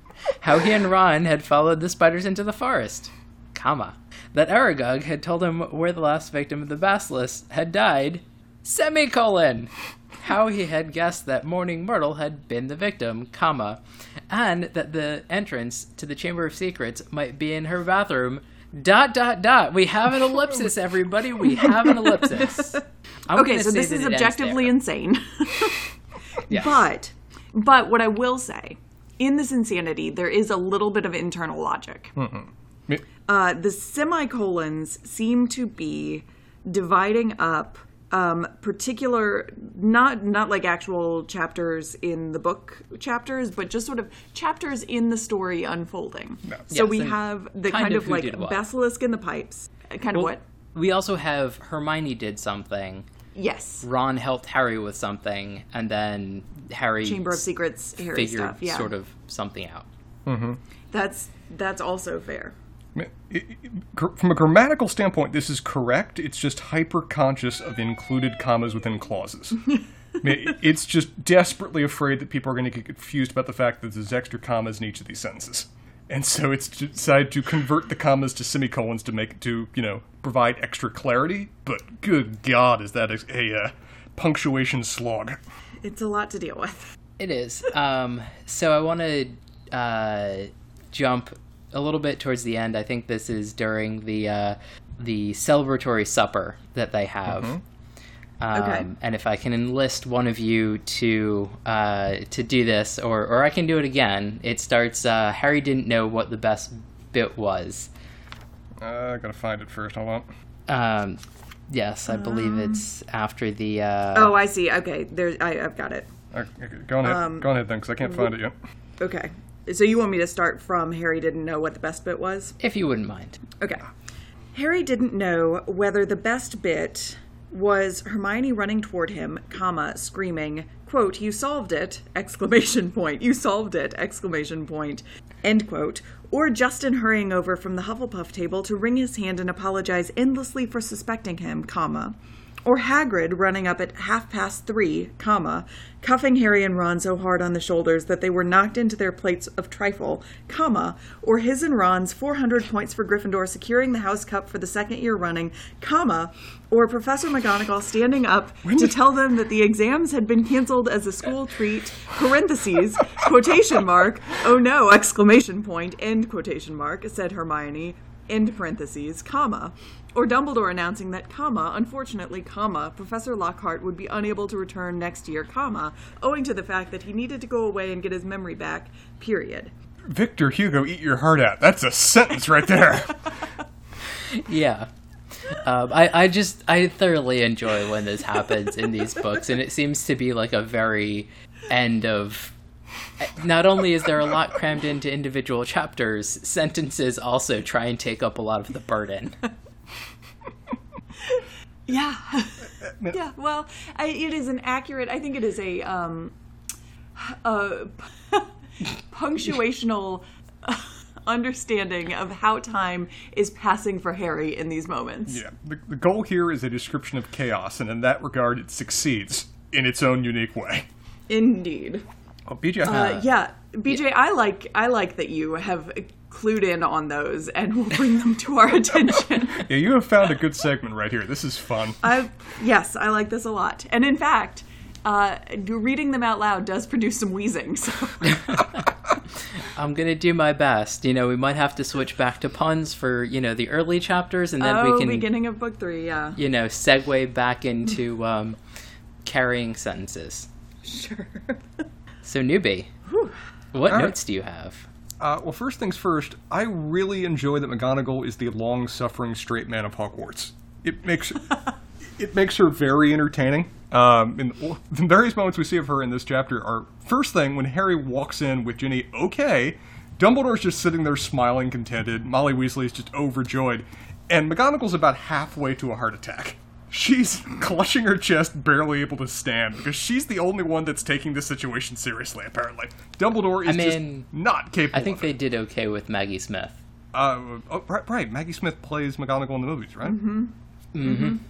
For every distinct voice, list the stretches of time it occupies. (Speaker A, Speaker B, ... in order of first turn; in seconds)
Speaker A: 0.4-24.8, 26.5-26.8, 46.7-48.6, 50.1-53.1, 53.8-57.5, 58.0-59.9, 87.2-97.6, 98.4-107.9, 110.7-114.3, 122.6-123.4, 184.1-184.9, 185.5-192.6, 193.2-199.4, 222.9-223.2, 238.2-238.8, 239.6-245.3, 246.4-248.6, 249.2-250.5, 252.2-252.9, 253.7-254.9, 283.6-284.3, 284.9-286.8, 290.9-291.4
Speaker B: 23.3-25.9, 26.5-32.2, 33.3-50.4, 53.4-53.9, 57.0-58.9, 60.9-62.5, 85.8-86.9, 98.5-98.9, 112.1-112.8, 114.2-116.1, 117.0-117.5, 119.0-122.6, 123.6-123.9, 124.5-179.7, 201.2-206.3, 207.2-215.4, 221.3-222.1, 222.8-229.7, 232.0-238.6, 244.6-246.4, 250.8-251.6, 253.1-253.3, 290.0-290.5, 291.0-291.4
Speaker C: 32.2-33.0, 60.3-60.6, 63.0-69.6, 70.2-85.4, 97.3-97.6, 108.8-110.3, 116.3-118.5, 158.7-159.0, 180.1-183.4, 202.8-203.2, 215.3-220.9, 222.5-223.1, 229.6-232.0, 253.9-254.2, 255.2-261.4, 262.2-285.3, 287.1-290.2